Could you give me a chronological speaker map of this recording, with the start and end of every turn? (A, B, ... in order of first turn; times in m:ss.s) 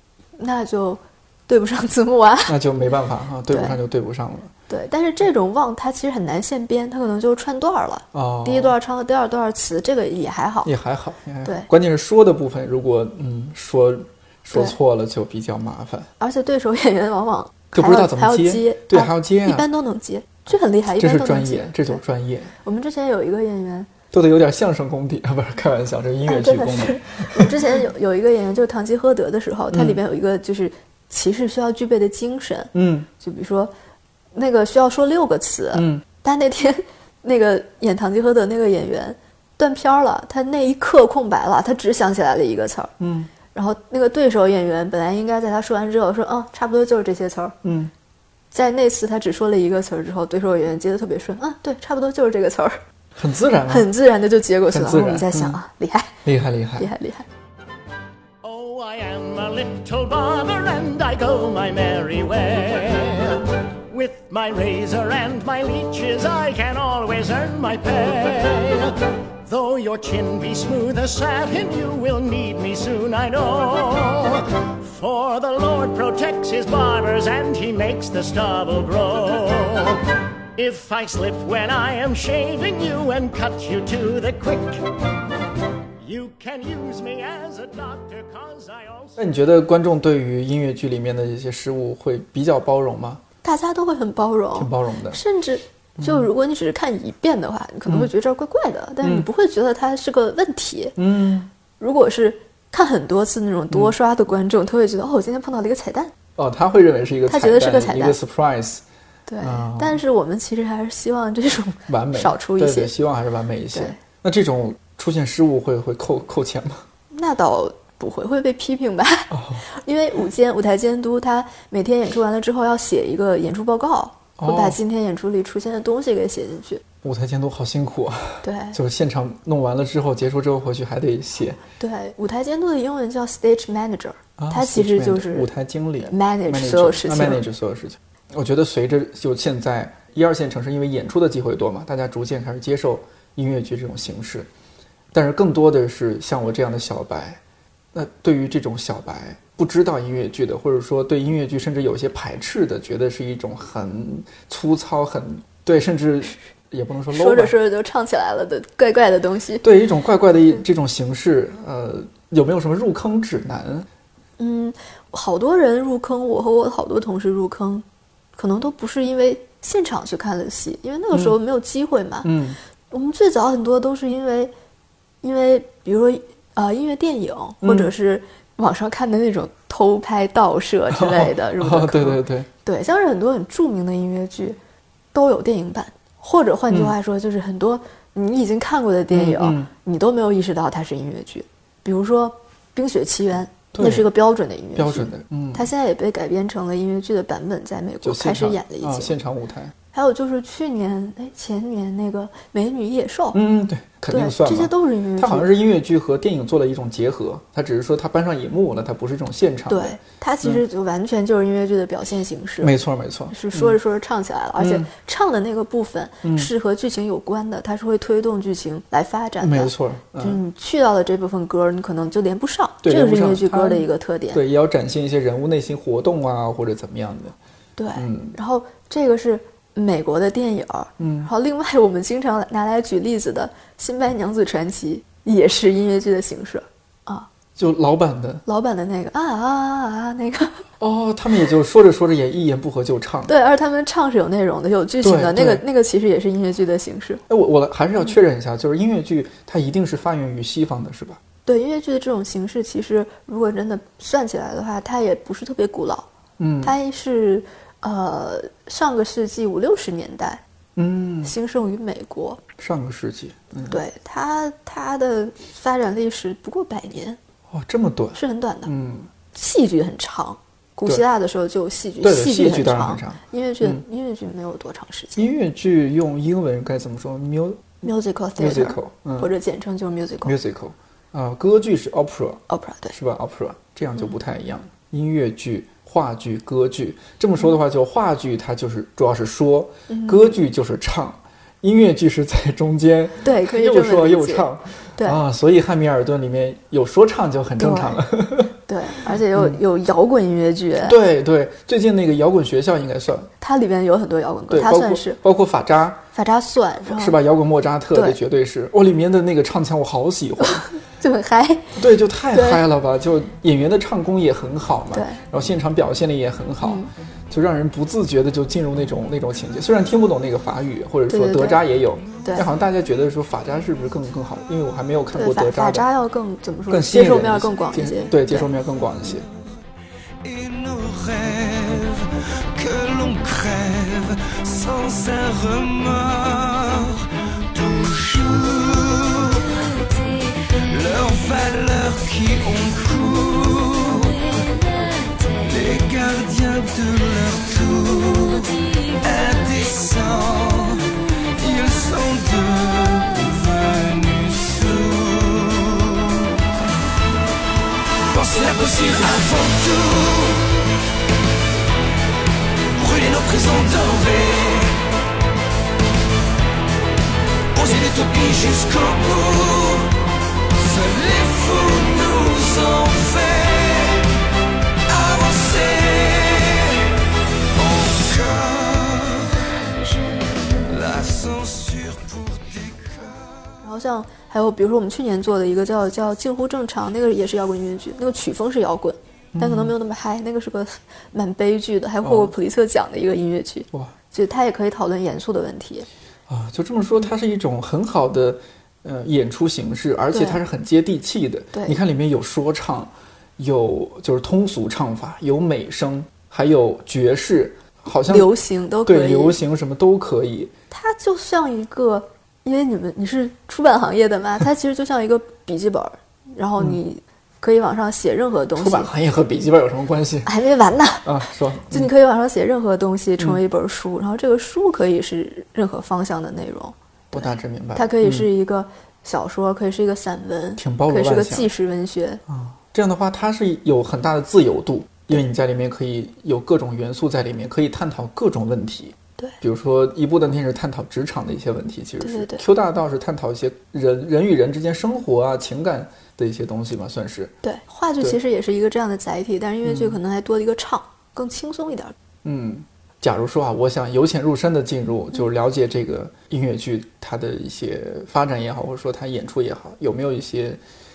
0:00.4-0:02.6 A
0:02.5-0:04.5 B
0:03.5-0:03.8 A
0:04.7-0:10.7 A
0:08.1-0:08.7 B
0:10.6-0:16.1 B
0:11.4-0:11.7 A
0:16.2-0:22.0 A
0:17.7-0:19.7 B
0:21.0-0:22.5 B
0:22.6-0:23.9 A
0:24.1-0:27.6 B
0:26.2-0:33.7 A
0:29.7-0:30.0 B
0:32.7-0:33.1 B
0:34.3-0:42.9 A
0:35.7-0:36.0 B
0:43.0-0:43.3 B
0:43.5-0:47.6 A
0:47.6-0:47.9 B
0:48.5-0:52.8 A
0:53.2-0:53.9 B
0:53.7-0:56.2 A
0:54.7-0:55.6 B
0:56.2-0:56.9 B
0:56.8-0:57.2 A
0:58.4-1:24.9 C
1:26.0-1:29.2 C
1:29.2-1:33.2 B
1:33.4-1:41.0 A
1:34.5-1:35.2 B
1:36.0-1:36.3 B
1:39.0-1:39.3 B
1:41.0-1:41.5 B
1:41.8-1:46.1 A
1:46.4-1:48.8 B
1:47.3-1:48.2 A
1:49.3-1:52.9 A
1:49.4-1:50.0 B
1:51.9-1:56.8 B
1:57.1-2:06.8 A
1:59.3-1:59.6 B
2:04.4-2:04.8 B
2:07.0-2:11.6 B
2:08.4-2:08.8 A
2:11.8-2:15.5 A
2:14.4-2:24.5 B
2:16.0-2:17.4 A
2:25.1-2:27.4 B
2:27.9-2:37.5 B
2:37.1-2:39.6 A
2:39.6-2:43.9 B
2:44.4-2:47.8 A
2:48.4-2:52.3 A
2:52.2-2:52.6 B
2:52.9-2:54.5 A
2:55.2-3:04.6 A
2:57.6-2:57.9 B
3:00.9-3:02.5 B
3:05.1-3:19.1 A
3:06.7-3:06.9 B
3:09.1-3:09.7 B
3:13.7-3:14.1 B
3:14.8-3:15.7 B
3:18.0-3:19.7 B
3:19.9-3:23.4 A
3:23.3-3:30.6 B
3:24.1-3:25.5 A
3:29.7-3:32.7 A
3:32.6-3:33.8 B
3:33.3-3:44.4 A
3:34.6-3:34.9 B
3:36.2-3:36.5 B
3:39.4-3:40.4 B
3:42.8-3:47.4 B
3:47.8-3:57.3 A
3:47.9-3:48.4 B
3:51.0-3:51.3 B
3:57.6-3:58.4 B
3:58.4-4:00.6 A
4:00.8-4:03.3 B
4:03.3-4:07.2 A
4:05.0-4:05.6 B
4:07.3-4:11.2 B
4:11.4-4:16.1 A
4:16.4-4:16.8 B
4:16.6-4:20.4 A
4:20.8-4:21.3 B
4:21.2-4:22.4 A
4:22.6-4:23.8 B
4:23.7-4:27.2 A
4:27.5-4:29.1 B
4:28.1-4:28.7 A
4:29.3-4:35.3 A
4:32.0-4:33.8 B
4:35.2-4:37.8 B
4:37.8-4:40.3 A
4:38.4-4:39.3 B
4:40.2-4:58.5 B
4:42.5-4:43.0 A
4:49.9-4:50.4 A
4:53.2-4:54.4 A
4:57.6-4:58.0 A
4:58.6-5:01.0 A
4:59.3-4:59.6 B
5:00.8-5:03.3 B
5:03.4-5:05.2 A
5:04.5-5:06.0 B
5:06.1-5:07.2 A
5:06.8-5:10.7 B
5:07.9-5:08.2 A
5:10.4-5:11.8 A
5:11.8-5:25.9 B
5:12.3-5:12.6 A
5:14.9-5:15.2 A
5:16.6-5:16.9 A
5:21.1-5:21.6 A
5:25.1-5:28.5 A
5:26.7-5:29.2 B
5:30.2-5:56.6 D
5:58.0-6:00.6 D
6:02.7-6:04.8 D
6:07.5-6:09.9 D
6:10.5-6:14.1 D
6:14.9-6:16.9 D
6:17.5-6:23.2 D
6:23.6-6:35.9 A
6:29.3-6:29.7 B
6:32.0-6:32.3 B
6:36.3-6:48.3 B
6:40.1-6:40.4 A
6:41.5-6:41.8 A
6:48.0-6:49.4 A
6:48.8-6:50.5 B
6:50.7-6:58.9 A
6:58.6-7:00.3 B
7:00.2-7:01.1 A
7:01.0-7:01.9 B
7:01.7-7:12.2 A
7:07.1-7:08.3 B
7:10.6-7:11.5 B
7:12.3-7:27.3 B
7:22.0-7:22.4 A
7:27.4-7:31.9 A
7:29.6-7:30.0 B
7:32.2-7:40.6 B